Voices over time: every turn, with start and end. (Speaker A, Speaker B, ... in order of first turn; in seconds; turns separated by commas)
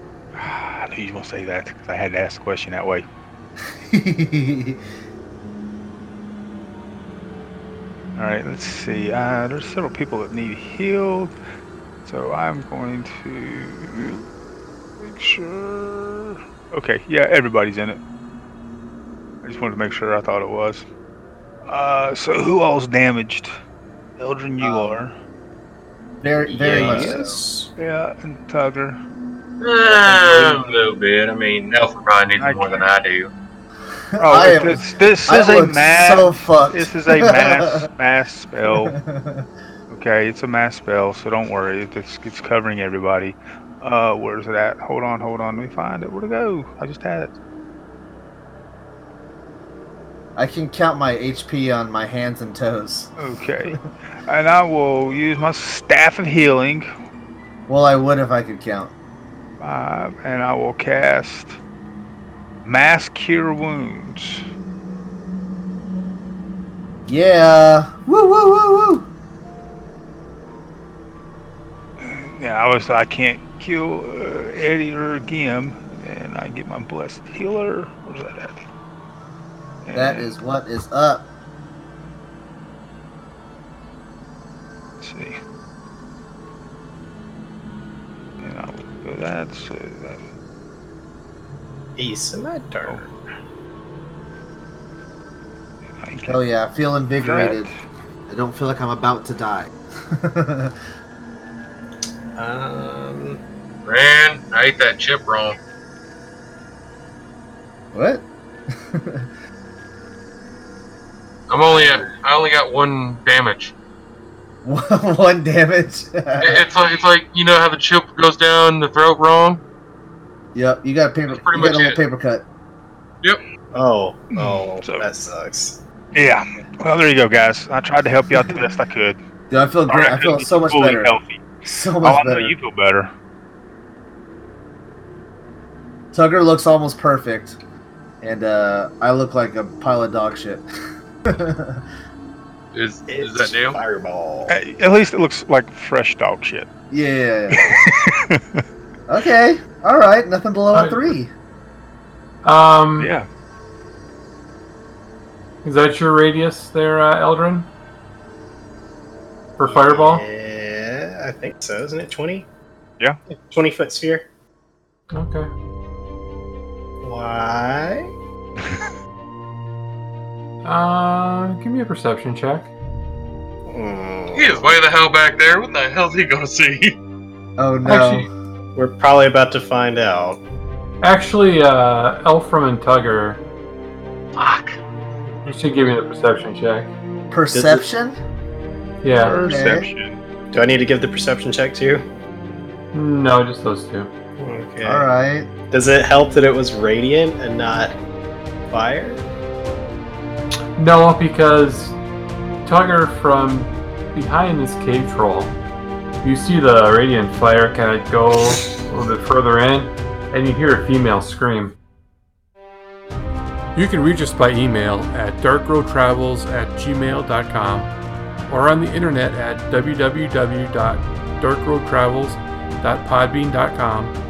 Speaker A: 0.3-3.0, Speaker B: 3.6-4.8, Speaker A: 8.2-11.3, Speaker A: 12.0-14.3, Speaker A: 15.0-18.0, Speaker A: 19.4-20.9, Speaker A: 21.7-23.5, Speaker A: 24.2-25.1, Speaker B: 24.6-25.0, Speaker B: 26.2-27.4, Speaker C: 26.5-27.7, Speaker A: 26.6-29.0, Speaker D: 29.6-33.3, Speaker C: 30.1-30.6, Speaker A: 32.4-32.9, Speaker B: 34.1-37.9, Speaker A: 34.2-39.0, Speaker B: 38.7-39.5, Speaker A: 39.9-47.3, Speaker B: 50.4-53.8, Speaker A: 53.2-56.9, Speaker B: 57.7-58.9, Speaker A: 59.6-61.6, Speaker A: 62.6-64.4, Speaker B: 67.1-69.1, Speaker A: 72.0-78.6, Speaker A: 79.8-80.3, Speaker B: 79.9-81.3, Speaker A: 85.0-85.4, Speaker A: 88.4-90.2, Speaker C: 92.0-93.1, Speaker A: 95.9-96.4, Speaker B: 96.3-97.7, Speaker A: 97.2-97.7, Speaker B: 98.3-100.8, Speaker C: 102.4-103.4, Speaker D: 103.8-105.6, Speaker B: 107.9-109.3, Speaker D: 111.5-113.7, Speaker C: 111.7-112.1, Speaker B: 114.6-116.7, Speaker D: 116.4-119.6, Speaker B: 120.5-122.5, Speaker D: 121.3-122.0, Speaker C: 123.7-125.8, Speaker A: 124.3-125.1, Speaker A: 126.2-129.2, Speaker B: 129.5-132.5, Speaker A: 129.9-131.4, Speaker A: 132.0-133.1, Speaker B: 136.1-137.6, Speaker B: 138.2-140.7, Speaker B: 141.3-141.8, Speaker D: 142.7-143.8, Speaker C: 143.1-144.6, Speaker A: 144.5-146.7, Speaker B: 146.9-147.8, Speaker A: 147.5-148.6, Speaker B: 149.1-151.3, Speaker E: 150.7-151.1, Speaker E: 152.4-153.1, Speaker A: 153.0-153.3, Speaker E: 155.6-157.7, Speaker E: 159.6-160.2, Speaker C: 159.6-162.5, Speaker C: 163.5-164.3, Speaker E: 165.1-165.5, Speaker C: 167.0-168.1, Speaker A: 168.6-168.9, Speaker E: 170.6-172.7, Speaker C: 173.7-174.8, Speaker D: 174.3-177.0, Speaker B: 177.6-178.3, Speaker C: 178.8-180.4, Speaker E: 181.0-183.4, Speaker E: 185.4-186.9, Speaker B: 187.3-188.2, Speaker C: 187.5-187.8, Speaker E: 189.0-189.4, Speaker A: 189.2-190.2, Speaker B: 189.3-189.9, Speaker C: 190.5-192.1, Speaker E: 192.9-194.1, Speaker C: 194.4-195.1, Speaker B: 194.8-195.5, Speaker C: 195.7-198.0, Speaker C: 198.7-199.2, Speaker E: 200.8-202.0, Speaker E: 202.6-205.6, Speaker E: 206.2-211.8, Speaker E: 213.8-217.9, Speaker E: 218.5-224.2